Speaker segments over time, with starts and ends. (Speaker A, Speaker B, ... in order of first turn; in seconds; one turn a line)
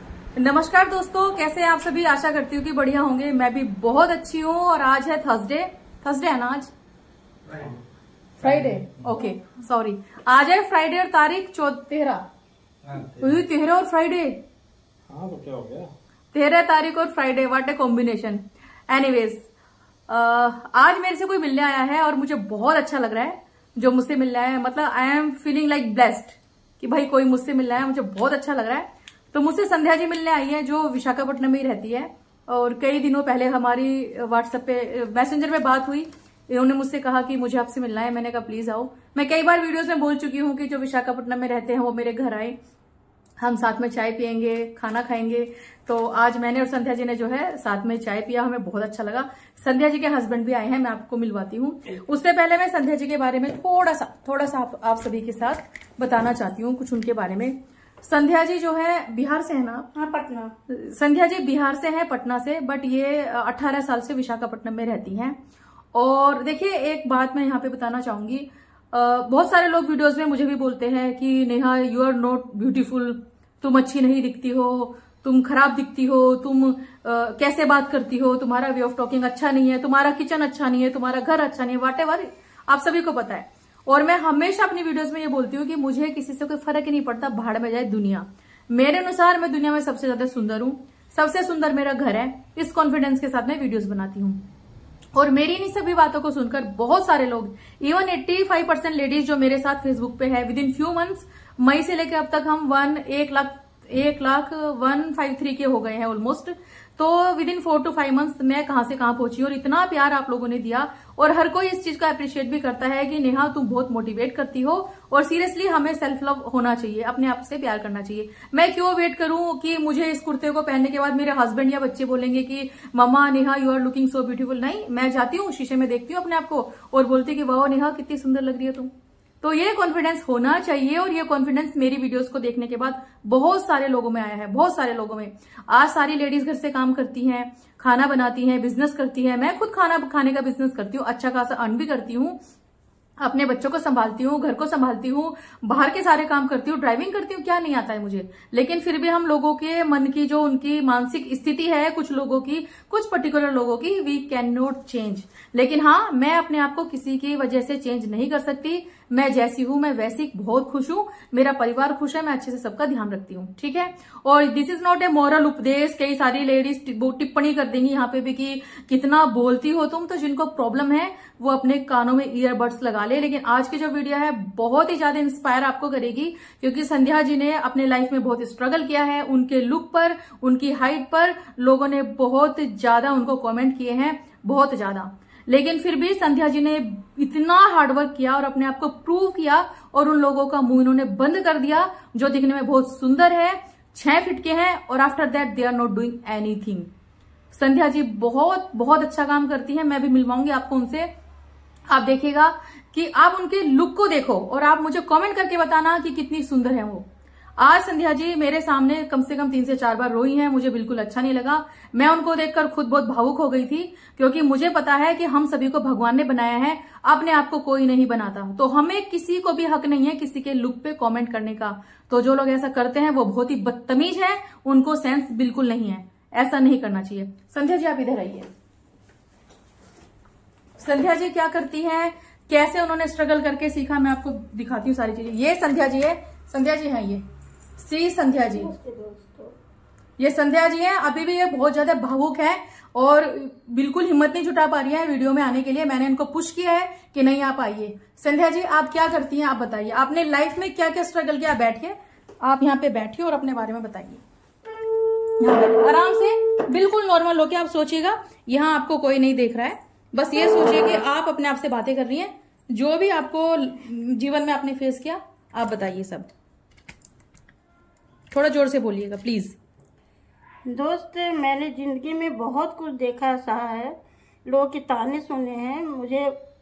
Speaker A: 0.3-6.7
Speaker B: 7.5-7.8
Speaker B: 8.4-9.1
Speaker A: 8.4-12.2
Speaker B: 12.8-13.4
Speaker A: 13.2-14.4
Speaker B: 15.1-15.9
Speaker A: 16.3-19.5
Speaker A: 20.1-42.5
Speaker A: 43.4-59.9
Speaker C: 59.9-60.5
Speaker A: 60.7-65.4
Speaker A: 65.9-94.4
Speaker A: 95.1-142.4
Speaker A: 143.2-196.9
Speaker A: 197.5-201.1
Speaker A: 201.9-207.1
Speaker A: 207.6-228.5
Speaker A: 230.8-237.2
Speaker A: 237.8-238.7
Speaker C: 238.4-239.5
Speaker A: 240.2-254.2
Speaker A: 255.4-266.3
Speaker A: 268.3-269.6
Speaker C: 270.6-276.4